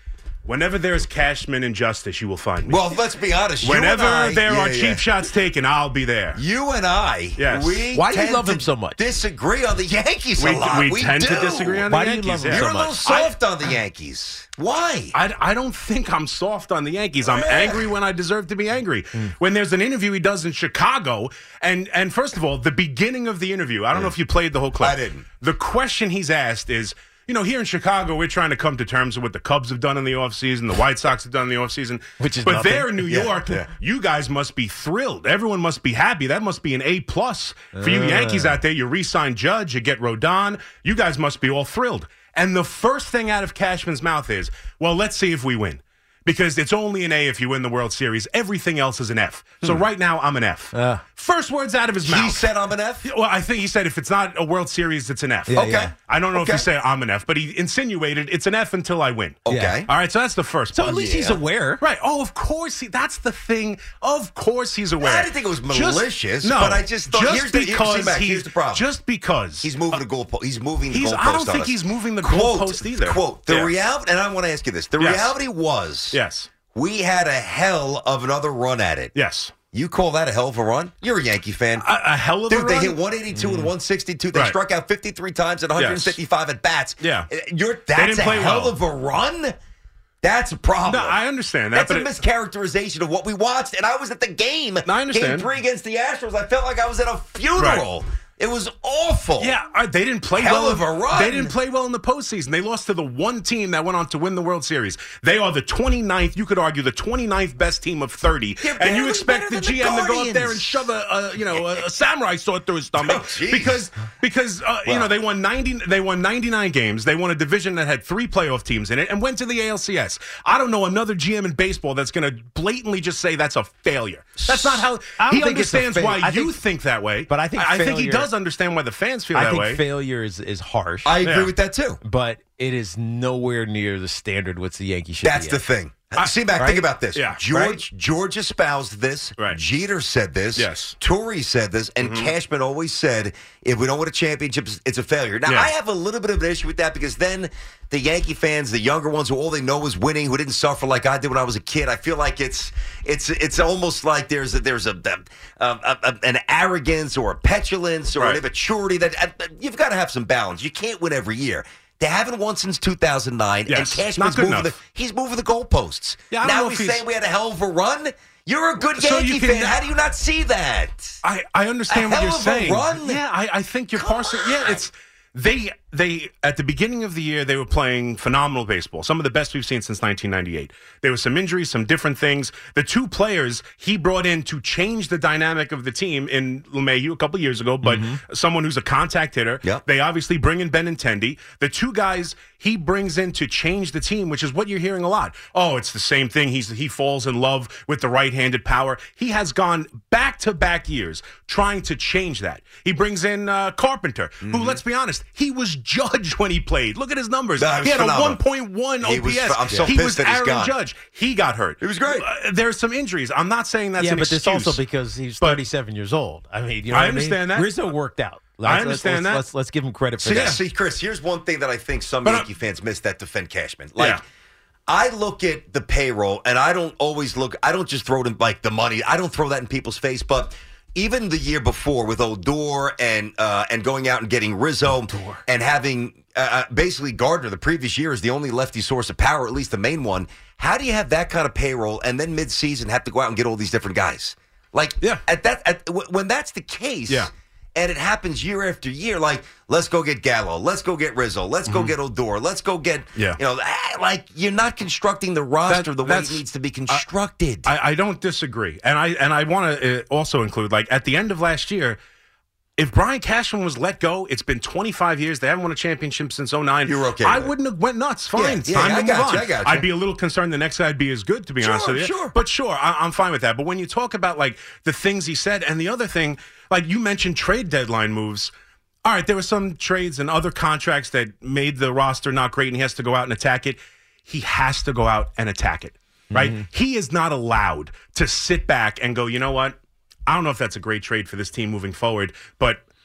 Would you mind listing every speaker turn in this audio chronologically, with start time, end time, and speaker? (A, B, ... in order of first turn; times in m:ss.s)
0:00.5-0:03.0 A
0:02.7-0:05.0 B
0:03.6-0:06.4 A
0:06.4-0:11.9 B
0:07.4-0:07.9 A
0:07.9-0:09.0 C
0:10.4-0:13.4 A
0:11.9-0:13.3 C
0:12.4-0:15.2 B
0:15.1-0:52.5 A
0:17.2-0:17.9 B
0:24.8-0:25.3 B
0:32.2-0:33.0 C
0:33.0-0:33.7 B
0:37.8-0:38.6 C
0:50.7-0:51.0 C
0:52.0-0:53.1 B
0:53.0-1:00.9 A
0:55.5-0:55.9 C
0:55.5-0:56.7 B
0:59.4-0:59.9 B
0:59.5-0:59.9 C
1:00.7-1:01.8 C
1:00.8-1:01.4 B
1:01.8-1:10.0 A
1:05.0-1:08.9 B
1:09.6-1:16.2 B
1:10.9-1:13.7 A
1:15.0-1:15.4 A
1:16.1-1:16.5 A
1:16.7-1:19.1 B
1:19.1-1:19.5 A
1:19.7-1:21.9 B
1:21.8-1:23.0 A
1:22.5-1:29.5 B
1:23.4-1:23.7 C
1:25.8-1:26.2 A
1:27.0-1:27.3 A
1:28.0-1:28.8 A
1:30.2-1:31.2 B
1:30.8-1:32.2 A
1:31.7-1:39.6 B
1:34.8-1:35.5 A
1:37.6-1:37.8 A
1:39.4-2:09.8 A
1:40.3-1:41.5 B
1:48.6-1:50.9 B
1:51.5-1:51.9 B
1:53.0-1:53.8 B
1:54.9-1:55.1 B
2:04.5-2:04.9 B
2:05.1-2:06.6 C
2:07.3-2:08.3 C
2:09.3-2:11.2 C
2:11.0-2:12.0 B
2:11.2-2:11.6 A
2:12.0-2:15.7 C
2:15.2-2:51.2 B
2:16.2-2:17.8 A
2:16.5-2:16.8 C
2:20.6-2:21.0 A
2:22.0-2:22.3 A
2:25.5-2:25.7 A
2:38.2-2:38.4 A
2:43.7-2:44.8 A
2:46.3-2:47.0 A
2:48.9-2:49.8 A
2:51.2-3:34.8 A
2:51.9-2:53.2 B
2:54.0-2:54.8 B
3:07.8-3:08.2 C
3:24.4-3:24.8 B
3:27.6-3:28.4 B
3:29.0-3:30.8 B
3:29.6-3:30.0 C
3:31.8-3:32.3 B
3:34.0-3:40.6 C
3:35.4-3:35.6 A
3:36.9-3:37.8 A
3:38.6-3:39.5 A
3:40.2-3:44.2 B
3:40.2-3:40.6 A
3:42.2-3:42.5 A
3:44.9-4:17.7 B
3:55.1-3:55.4 C
4:11.7-4:11.9 A
4:15.7-4:17.1 A
4:17.6-4:22.0 A
4:22.8-4:38.5 A
4:26.8-4:27.5 B
4:28.3-4:29.9 B
4:31.6-4:32.4 B
4:39.0-4:49.8 A
4:46.3-4:46.6 C
4:50.3-4:52.8 A